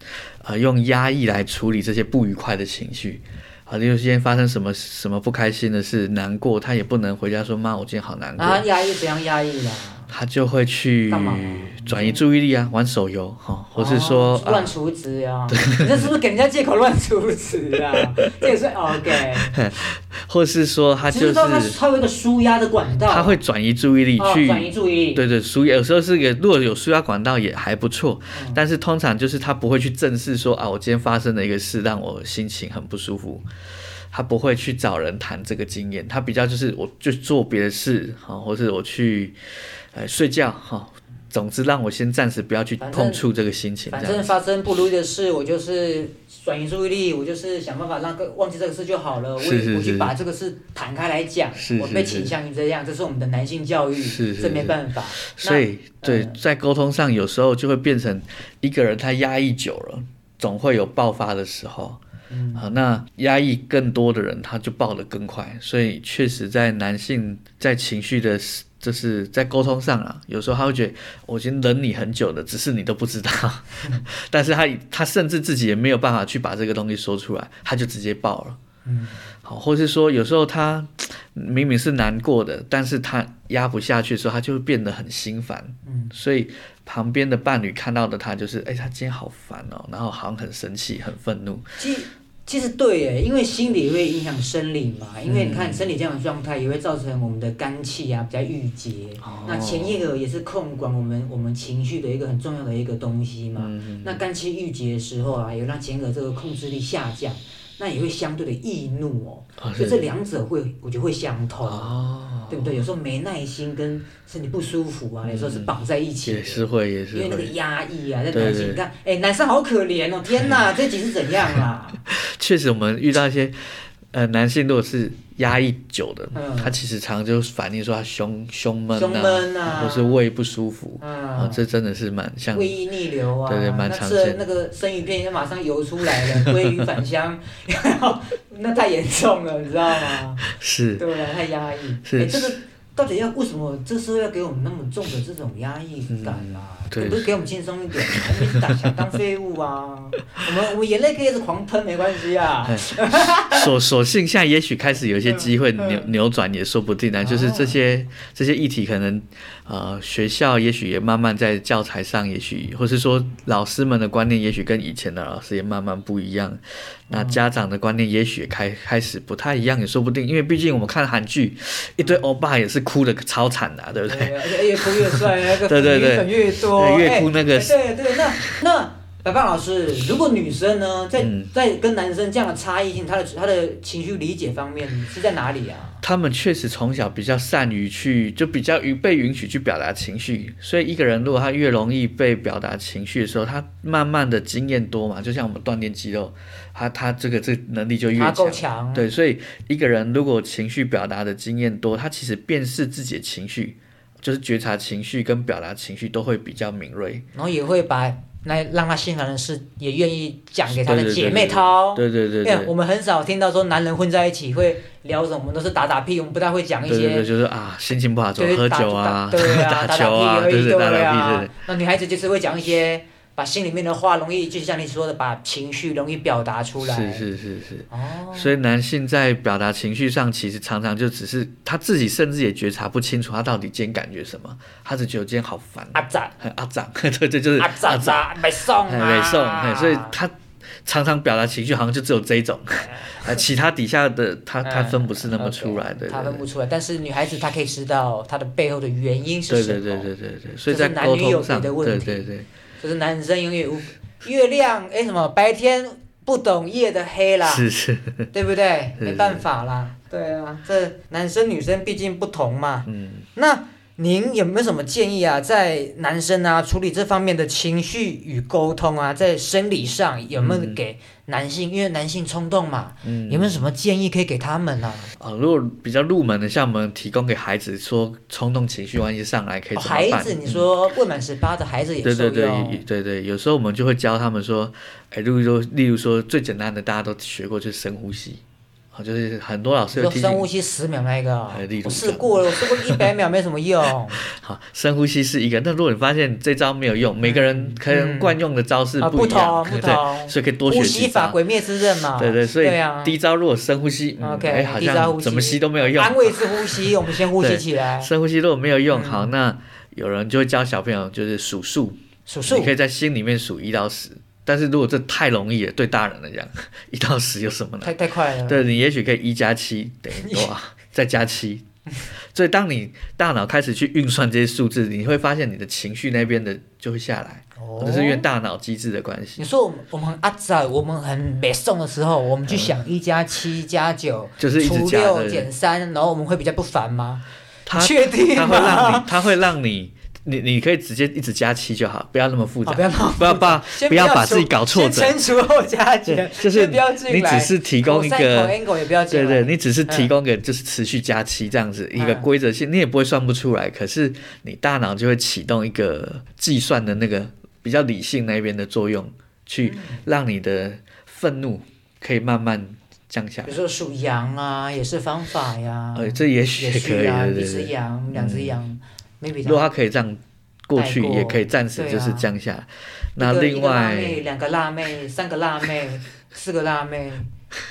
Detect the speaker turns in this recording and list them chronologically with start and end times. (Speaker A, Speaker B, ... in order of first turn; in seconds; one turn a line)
Speaker A: 0.4-8.7
Speaker B: 8.4-10.1
Speaker A: 10.1-14.7
Speaker B: 11.1-12.2
Speaker B: 13.7-19.6
Speaker A: 15.6-16.0
Speaker A: 19.1-21.8
Speaker B: 21.0-23.4
Speaker A: 23.1-33.4
Speaker B: 24.2-25.2
Speaker B: 28.3-28.6
Speaker A: 34.1-39.4
Speaker A: 39.9-44.3
Speaker B: 42.8-43.2
Speaker B: 43.9-56.4
Speaker A: 49.4-50.1
Speaker A: 51.6-52.3
Speaker A: 54.0-62.0
Speaker B: 62.3-62.7
Speaker A: 62.5-78.6
Speaker B: 78.8-79.2
Speaker A: 79.4-91.7
Speaker B: 85.8-86.1
Speaker B: 91.8-111.9
Speaker A: 95.2-95.9
Speaker A: 99.2-100.0
Speaker A: 103.6-104.2
Speaker A: 109.6-110.0
Speaker A: 111.7-112.8
Speaker B: 112.5-122.0
Speaker A: 115.2-115.7
Speaker A: 116.2-117.5
Speaker A: 118.3-118.8
Speaker A: 122.1-132.8
Speaker B: 126.3-126.7
Speaker B: 128.9-130.2
Speaker B: 131.0-131.6
Speaker B: 132.5-140.4
Speaker A: 133.4-134.4
Speaker A: 140.4-141.0
Speaker B: 141.0-153.7
Speaker A: 142.0-142.6
Speaker A: 146.1-147.3
Speaker A: 148.1-148.9
Speaker A: 152.7-178.6
Speaker B: 155.3-156.1
Speaker B: 157.2-157.8
Speaker B: 167.1-167.4
Speaker B: 174.1-186.0
Speaker A: 181.2-181.5
Speaker A: 186.0-207.2
Speaker B: 198.2-199.1
Speaker B: 207.3-217.3
Speaker A: 210.7-212.7
Speaker A: 216.8-221.6
Speaker B: 218.4-227.2
Speaker A: 226.8-246.4
Speaker B: 227.9-228.6
Speaker B: 235.9-236.4
Speaker B: 237.6-240.2
Speaker B: 242.8-243.4
Speaker B: 244.6-250.1
Speaker A: 249.5-252.4
Speaker B: 250.7-257.7
Speaker A: 257.4-258.3
Speaker B: 258.3-275.1
Speaker A: 259.0-259.4
Speaker A: 262.9-263.2
Speaker A: 270.4-270.8
Speaker A: 273.0-273.6
Speaker A: 275.2-280.7
Speaker B: 279.7-282.8
Speaker A: 282.0-288.4
Speaker A: 288.9-290.5
Speaker B: 289.9-294.2
Speaker A: 291.5-293.0
Speaker A: 294.2-301.4
Speaker B: 297.2-298.4
Speaker B: 299.0-303.2
Speaker A: 302.0-317.9
Speaker B: 304.2-308.1
Speaker B: 308.9-309.3
Speaker B: 312.3-312.7
Speaker B: 317.8-318.6
Speaker A: 318.4-321.6
Speaker B: 320.1-320.5
Speaker A: 322.3-329.4
Speaker B: 327.6-328.3
Speaker B: 329.4-339.2
Speaker A: 332.5-332.8
Speaker A: 334.4-335.5
Speaker A: 337.6-345.2
Speaker B: 342.6-350.1
Speaker A: 346.1-363.6
Speaker B: 351.9-352.3
Speaker B: 359.6-360.0
Speaker B: 363.4-369.6
Speaker A: 365.9-368.6
Speaker A: 369.4-374.2
Speaker B: 370.8-372.3
Speaker B: 373.2-377.3